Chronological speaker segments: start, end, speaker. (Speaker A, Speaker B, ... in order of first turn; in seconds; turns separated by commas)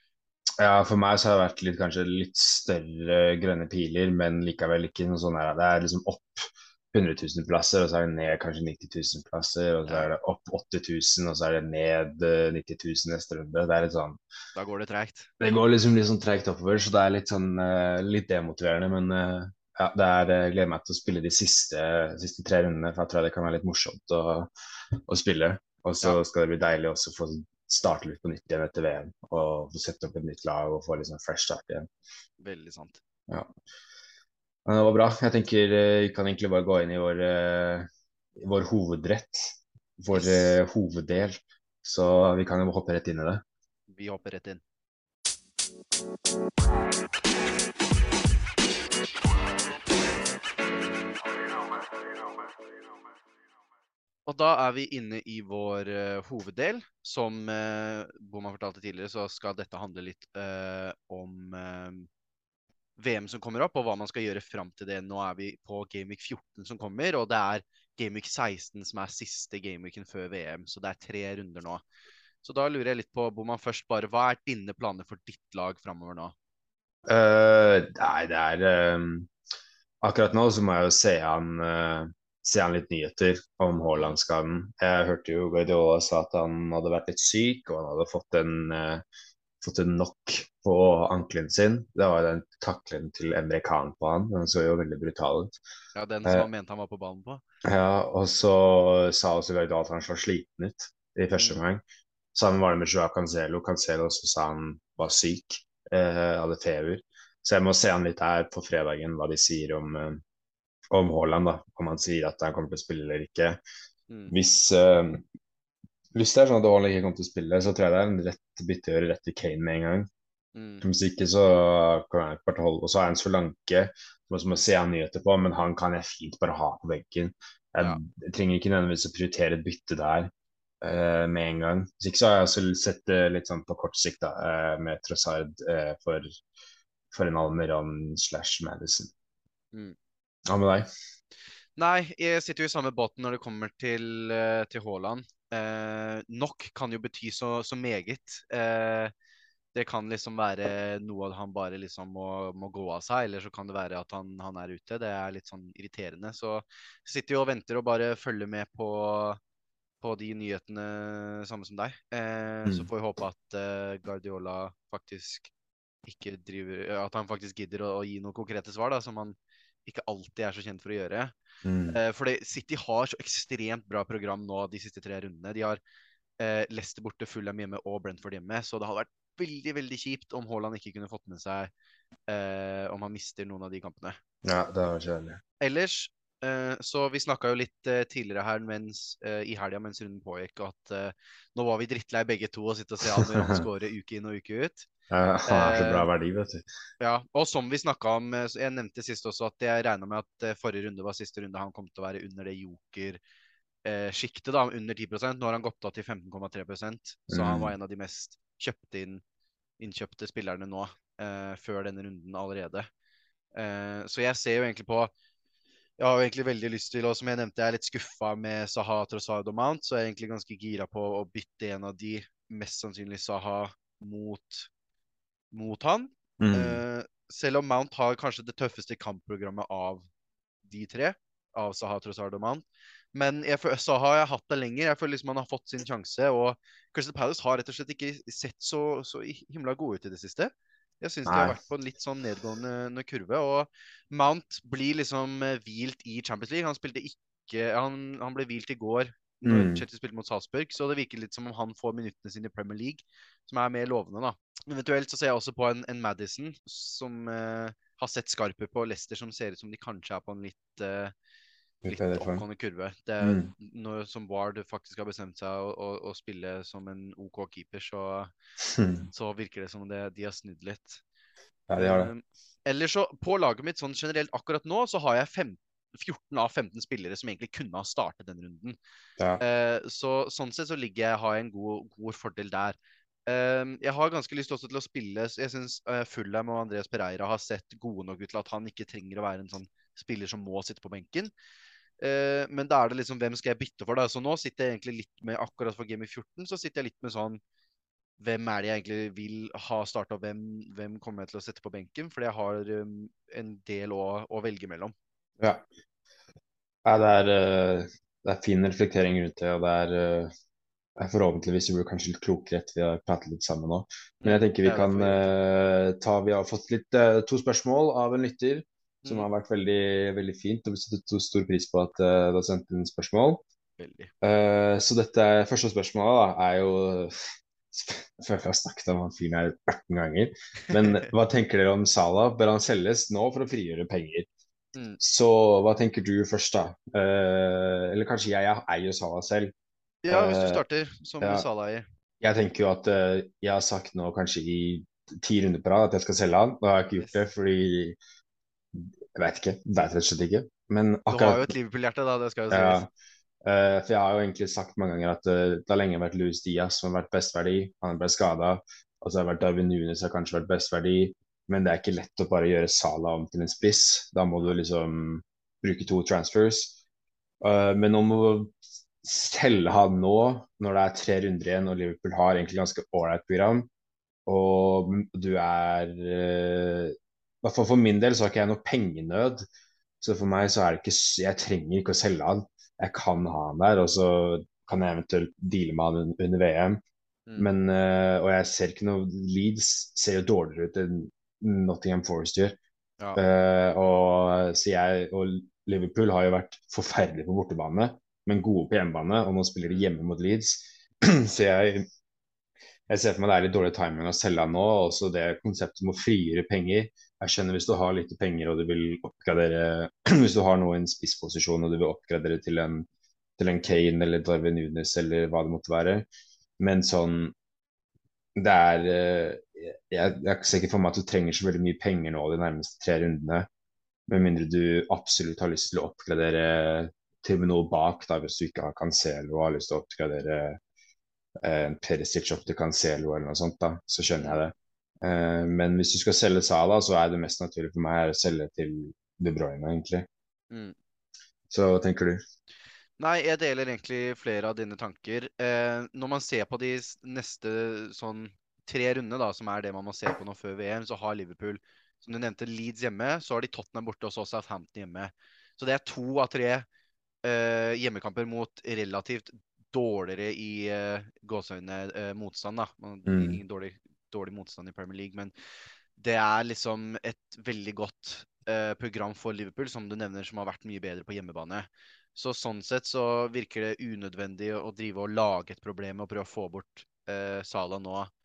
Speaker A: 0.6-14.2, Speaker B: 14.6-15.3, Speaker A: 15.4-24.5, Speaker A: 25.1-31.9, Speaker B: 32.4-33.0, Speaker A: 34.7-43.4, Speaker B: 40.1-40.5, Speaker B: 43.9-44.6, Speaker B: 54.3-62.1, Speaker B: 63.0-71.8, Speaker B: 72.4-76.3, Speaker A: 77.1-79.3, Speaker A: 80.0-89.0, Speaker A: 89.6-95.6, Speaker B: 96.0-97.4, Speaker A: 97.6-110.2, Speaker A: 110.9-113.6, Speaker B: 114.1-114.3, Speaker A: 114.3-115.2, Speaker A: 116.1-120.1, Speaker B: 120.5-120.8, Speaker A: 120.8-130.3, Speaker A: 130.8-136.4, Speaker A: 137.1-139.1, Speaker A: 140.5-140.9, Speaker B: 141.8-149.1, Speaker B: 149.7-159.4, Speaker B: 160.0-165.5, Speaker B: 166.1-171.3, Speaker A: 171.6-172.0, Speaker B: 171.9-175.8, Speaker B: 176.4-181.7, Speaker B: 182.3-184.2, Speaker A: 184.4-185.4, Speaker B: 185.6-194.9, Speaker A: 193.2-193.7, Speaker A: 195.1-196.7, Speaker B: 195.5-196.1, Speaker B: 197.0-203.2, Speaker B: 203.8-209.2, Speaker A: 207.3-207.7, Speaker B: 209.8-212.9, Speaker B: 213.6-215.1, Speaker B: 216.0-224.7, Speaker B: 225.5-230.1, Speaker A: 226.4-226.8, Speaker B: 230.7-261.1, Speaker A: 241.3-241.6, Speaker A: 249.4-249.8, Speaker A: 261.8-262.4, Speaker B: 261.9-268.3, Speaker A: 263.2-263.5, Speaker A: 268.6-269.1, Speaker B: 269.1-271.0, Speaker A: 271.7-272.1, Speaker B: 271.8-278.8, Speaker B: 279.4-291.3, Speaker B: 292.0-297.4, Speaker B: 298.2-304.9, Speaker A: 305.4-305.7, Speaker A: 306.9-310.3, Speaker A: 311.0-323.4, Speaker B: 314.2-315.3, Speaker B: 319.0-319.3, Speaker B: 323.8-324.1, Speaker A: 324.2-327.1, Speaker A: 327.7-334.3, Speaker B: 330.7-331.1, Speaker B: 334.8-335.0, Speaker A: 335.0-339.5, Speaker B: 340.0-341.9, Speaker A: 340.1-340.6, Speaker A: 342.2-348.0, Speaker B: 347.0-347.2, Speaker A: 348.8-351.5, Speaker B: 351.1-352.8, Speaker A: 352.5-352.9, Speaker A: 353.4-366.8, Speaker A: 367.4-373.7, Speaker A: 374.3-379.4, Speaker A: 380.0-386.8, Speaker A: 387.4-392.6, Speaker A: 393.2-401.9, Speaker A: 402.9-412.9, Speaker A: 413.4-416.1, Speaker A: 416.6-417.4, Speaker A: 418.4-423.5, Speaker A: 424.1-430.6, Speaker A: 431.4-440.1, Speaker A: 441.5-442.2, Speaker B: 443.0-456.7, Speaker B: 457.2-465.3, Speaker A: 463.1-463.4, Speaker B: 466.0-478.1